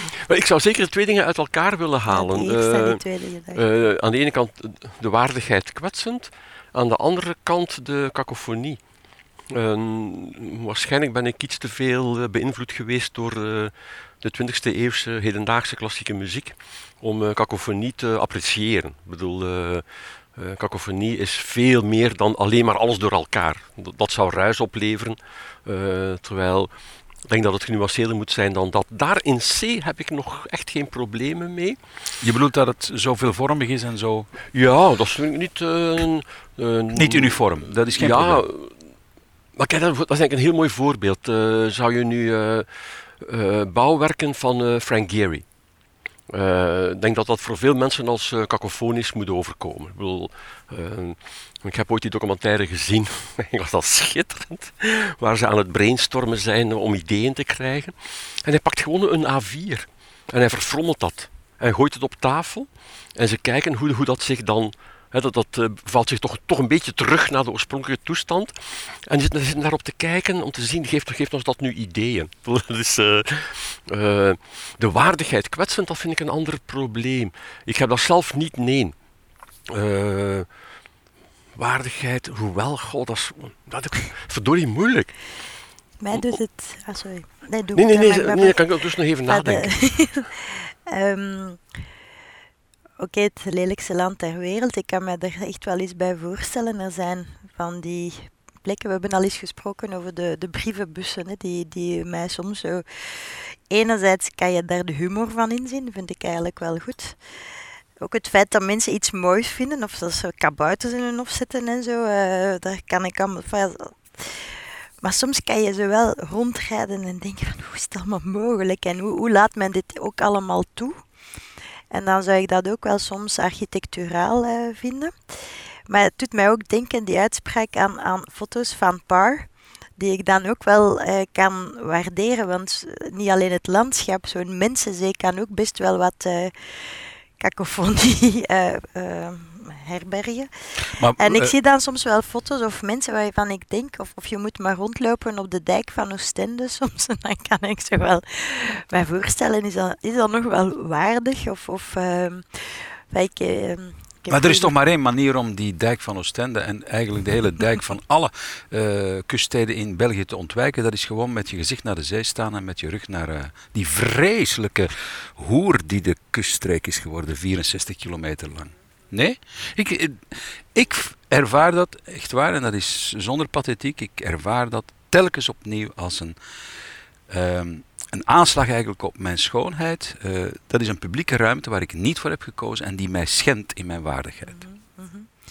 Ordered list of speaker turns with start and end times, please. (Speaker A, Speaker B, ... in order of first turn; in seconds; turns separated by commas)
Speaker A: 0.2-3.0, Speaker B: 2.1-3.6, Speaker A: 3.5-8.8, Speaker A: 9.5-26.7, Speaker A: 27.2-31.8, Speaker C: 32.2-34.3, Speaker A: 34.5-38.9, Speaker C: 36.9-38.4, Speaker A: 39.5-45.5, Speaker A: 46.3-78.9, Speaker A: 79.7-80.5, Speaker A: 81.5-85.1, Speaker B: 86.0-88.7, Speaker A: 87.8-89.7, Speaker B: 89.2-91.6, Speaker B: 93.0-107.2, Speaker B: 108.0-114.5, Speaker B: 115.0-121.0, Speaker B: 121.9-154.7, Speaker C: 141.0-141.5, Speaker C: 154.3-176.4, Speaker C: 177.3-184.6, Speaker B: 184.4-185.3